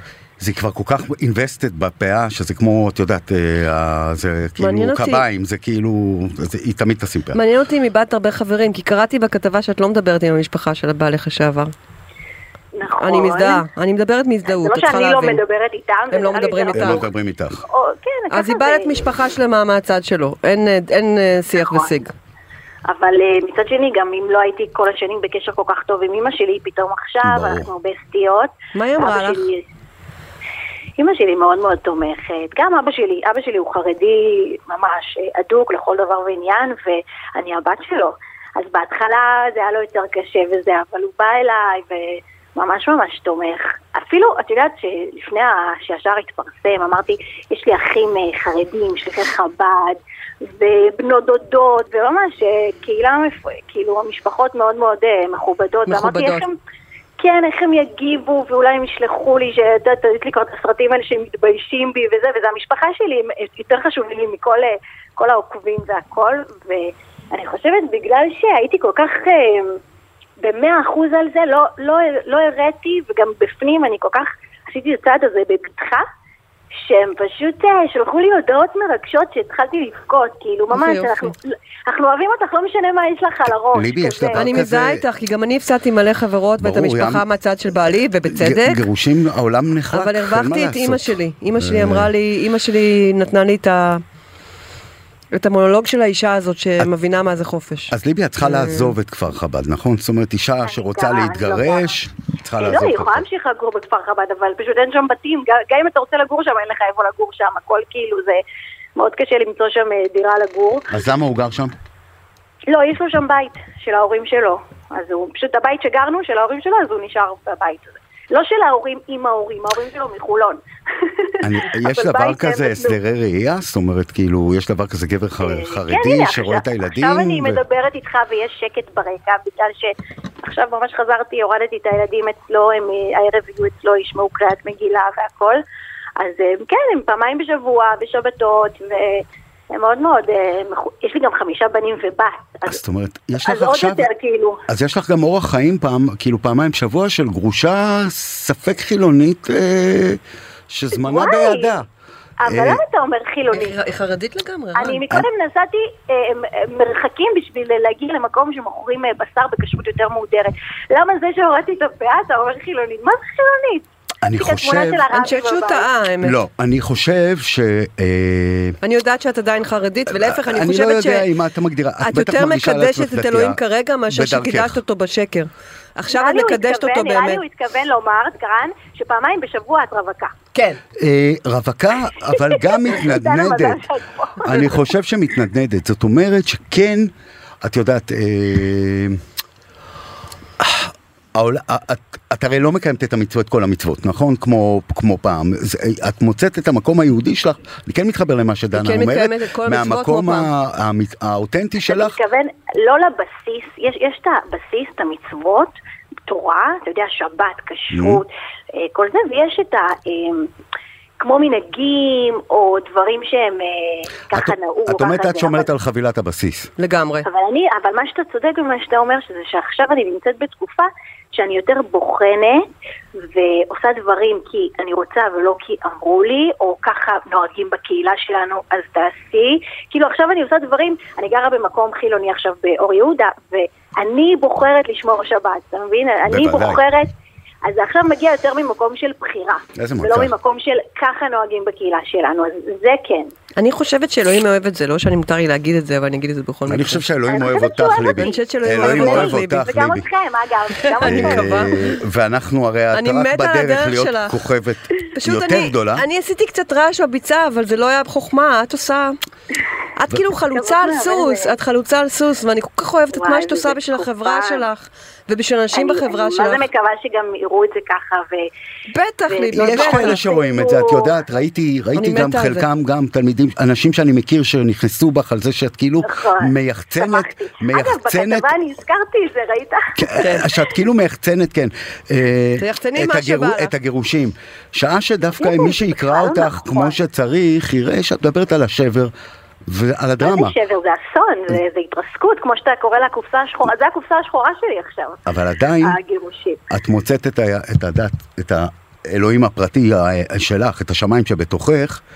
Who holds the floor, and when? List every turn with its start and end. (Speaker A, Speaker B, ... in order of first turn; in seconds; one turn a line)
Speaker A: 0.4-7.4
Speaker B: 4.6-5.2
Speaker B: 7.3-11.7
Speaker C: 12.8-13.6
Speaker B: 13.0-15.4
Speaker C: 14.5-19.1
Speaker B: 16.1-17.0
Speaker A: 16.7-17.6
Speaker B: 18.3-22.1
Speaker C: 21.5-22.0
Speaker C: 22.9-29.6
Speaker A: 27.2-27.7
Speaker B: 28.7-29.4
Speaker C: 31.0-56.5
Speaker B: 55.9-56.4
Speaker C: 57.2-69.8
Speaker C: 70.4-76.0
Speaker C: 76.8-84.6
Speaker B: 80.7-81.3
Speaker A: 83.7-85.0
Speaker B: 84.3-88.8
Speaker A: 86.6-87.2
Speaker A: 88.3-92.1
Speaker B: 89.9-94.0
Speaker B: 95.3-98.9
Speaker A: 97.9-103.2
Speaker C: 100.6-101.9
Speaker C: 102.6-108.4
Speaker C: 109.0-110.9
Speaker A: 110.9-111.7
Speaker C: 112.7-123.0
Speaker A: 121.4-127.6
Speaker C: 125.4-135.6
Speaker C: 136.2-142.8
Speaker A: 142.7-144.1
Speaker C: 143.4-144.6
Speaker A: 144.7-151.9
Speaker C: 150.9-151.8
Speaker C: 152.4-153.8
Speaker A: 152.4-152.8
Speaker B: 153.5-155.1
Speaker C: 154.8-165.9
Speaker A: 164.2-165.1
Speaker B: 165.1-166.4
Speaker A: 166.2-168.8
Speaker B: 168.8-171.3
Speaker A: 170.1-174.8
Speaker B: 172.0-177.4
Speaker C: 176.1-180.3
Speaker B: 180.5-180.8
Speaker A: 181.0-183.9
Speaker C: 182.3-184.8
Speaker A: 184.4-187.1
Speaker A: 187.6-189.2
Speaker A: 190.6-202.2
Speaker B: 198.7-200.5
Speaker C: 201.9-205.7
Speaker C: 206.3-210.5
Speaker A: 207.9-208.2
Speaker C: 211.2-215.7
Speaker A: 214.3-216.7
Speaker B: 216.8-217.2
Speaker C: 217.2-222.6
Speaker C: 223.2-237.1
Speaker A: 236.3-236.8
Speaker C: 237.6-243.3
Speaker A: 239.8-240.3
Speaker B: 243.6-247.0
Speaker A: 246.7-250.0
Speaker C: 247.3-251.7
Speaker B: 248.1-249.7
Speaker B: 250.9-252.0
Speaker A: 251.0-256.0
Speaker B: 252.9-254.4
Speaker B: 255.1-259.1
Speaker B: 259.9-266.6
Speaker C: 260.5-261.5
Speaker C: 263.1-264.7
Speaker C: 265.7-268.5
Speaker B: 268.9-270.2
Speaker C: 269.3-271.1
Speaker A: 269.5-278.5
Speaker B: 271.9-272.6
Speaker C: 276.0-280.6
Speaker A: 279.9-289.1
Speaker B: 280.2-280.4
Speaker B: 282.6-283.7
Speaker C: 285.4-287.0
Speaker A: 289.7-290.5
Speaker C: 290.2-295.2
Speaker A: 295.2-296.0
Speaker C: 295.8-296.6
Speaker A: 296.7-302.0